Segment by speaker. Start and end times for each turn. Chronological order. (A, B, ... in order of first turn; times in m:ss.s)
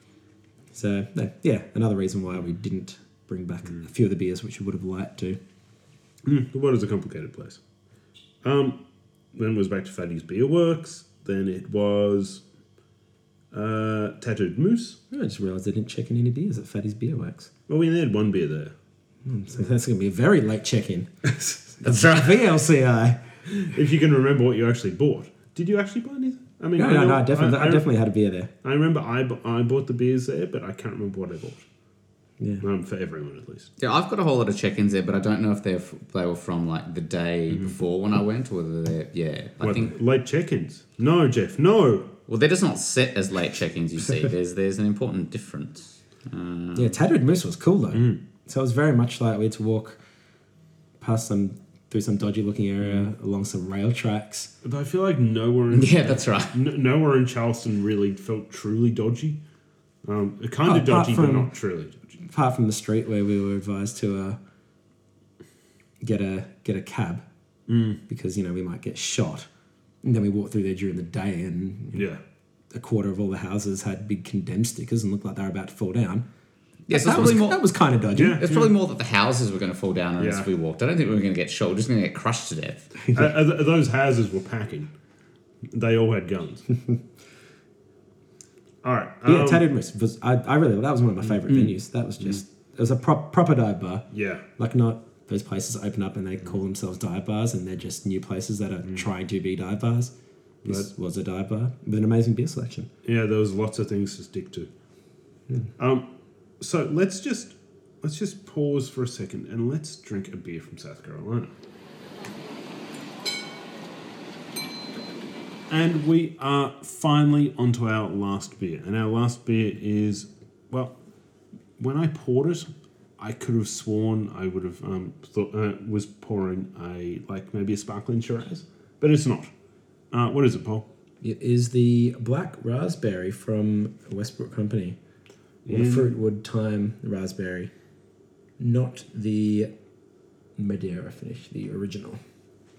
0:00.7-0:05.4 A
0:06.2-0:07.6 B
0:08.4-0:08.8 B
0:09.3-0:12.4 B
0:13.5-0:15.0 B
0:15.1-0:17.5 A
0:17.7-0:18.7 B
0:19.2-0:21.1 A
0:21.4-0:22.3 B
0:21.8-0:23.2 A
0:23.5-0:27.9 B
0:26.8-0:28.5 A
0:28.6-0:31.6 B
0:32.4-0:32.6 A
0:32.6-0:33.7 B
0:33.8-0:39.9 C
0:39.6-0:42.2 B
0:42.3-0:47.0 C
0:46.7-0:50.0 A
0:47.9-0:48.2 B
0:51.0-0:54.5 A
0:52.8-0:53.1 B
0:54.6-0:59.4 B
0:55.7-0:56.5 C
1:00.0-1:02.2 B
1:00.6-1:01.5 A
1:02.2-1:04.4 A
1:06.0-1:07.2 A
1:07.7-1:08.0 B
1:08.1-1:09.5 A
1:10.0-1:12.1 A
1:11.9-1:12.2 B
1:12.7-1:16.2 A
1:16.9-1:17.6 C
1:16.9-1:18.4 A
1:17.0-1:17.4 B
1:18.1-1:18.7 B
1:18.4-1:22.9 C
1:20.2-1:20.5 B
1:23.1-1:24.9 B
1:25.7-1:26.7 B
1:28.8-1:29.6 B
1:29.2-1:40.1 A
1:34.1-1:34.4 B
1:40.6-1:40.9 B
1:40.6-1:42.9 A
1:43.0-1:44.7 B
1:45.8-1:46.1 B
1:46.6-1:51.5 B
1:55.7-2:01.0 B
2:01.8-2:09.5 B
2:10.1-2:10.9 B
2:11.2-2:15.0 A
2:15.6-2:16.1 B
2:15.7-2:17.7 A
2:18.6-2:19.7 A
2:20.6-2:22.2 A